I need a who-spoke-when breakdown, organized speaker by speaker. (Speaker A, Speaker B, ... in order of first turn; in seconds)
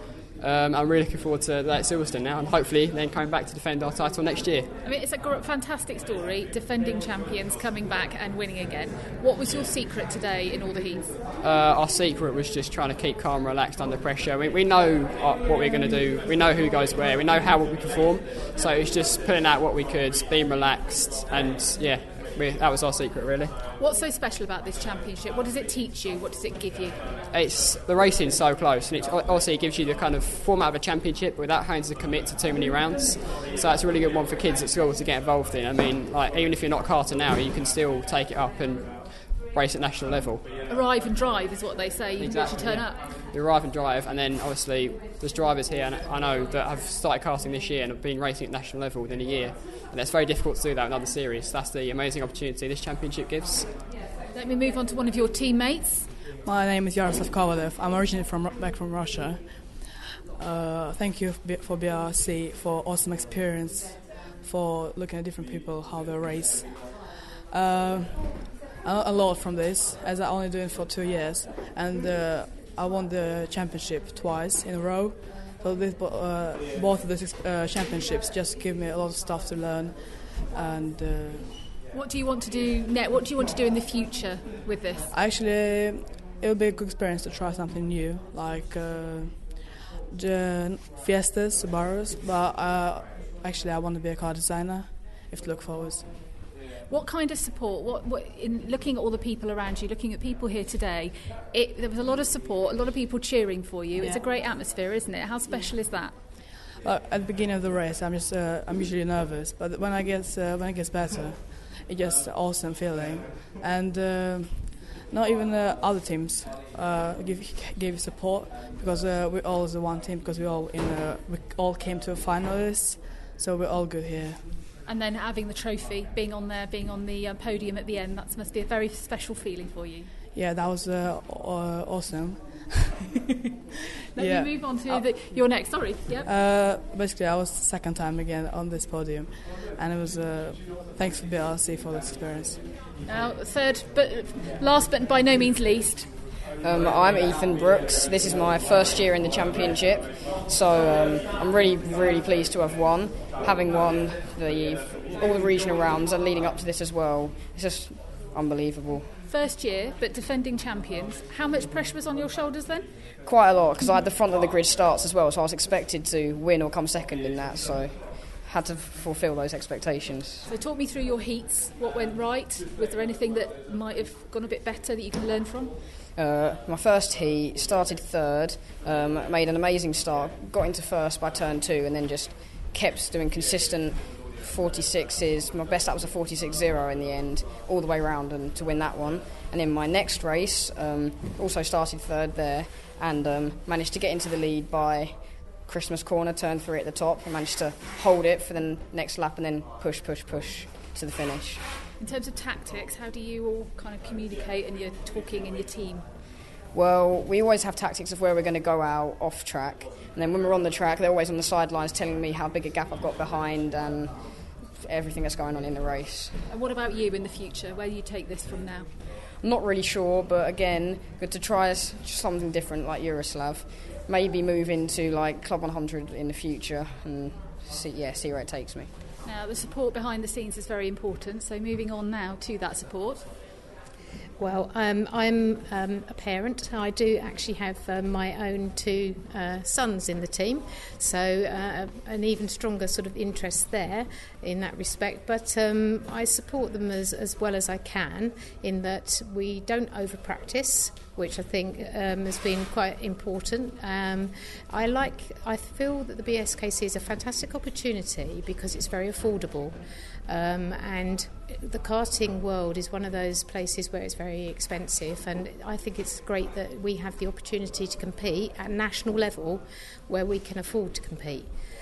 Speaker A: 0.4-4.7, 11.4-23.6, 27.3-40.5, 42.2-53.7
Speaker B: 4.8-11.1, 23.8-27.0, 40.7-43.0, 54.3-56.1, 81.9-85.1, 96.9-106.2, 124.9-130.1, 134.1-136.3, 143.1-146.1, 159.3-162.9, 170.5-175.8, 202.0-206.1, 216.5-218.9, 229.2-233.2
Speaker C: 56.4-81.6, 85.1-96.1, 106.8-124.5, 130.3-132.9, 134.2-142.6
Speaker D: 146.6-159.2, 163.2-170.5, 176.2-201.6, 206.7-216.4, 219.4-228.9
Speaker E: 234.4-271.5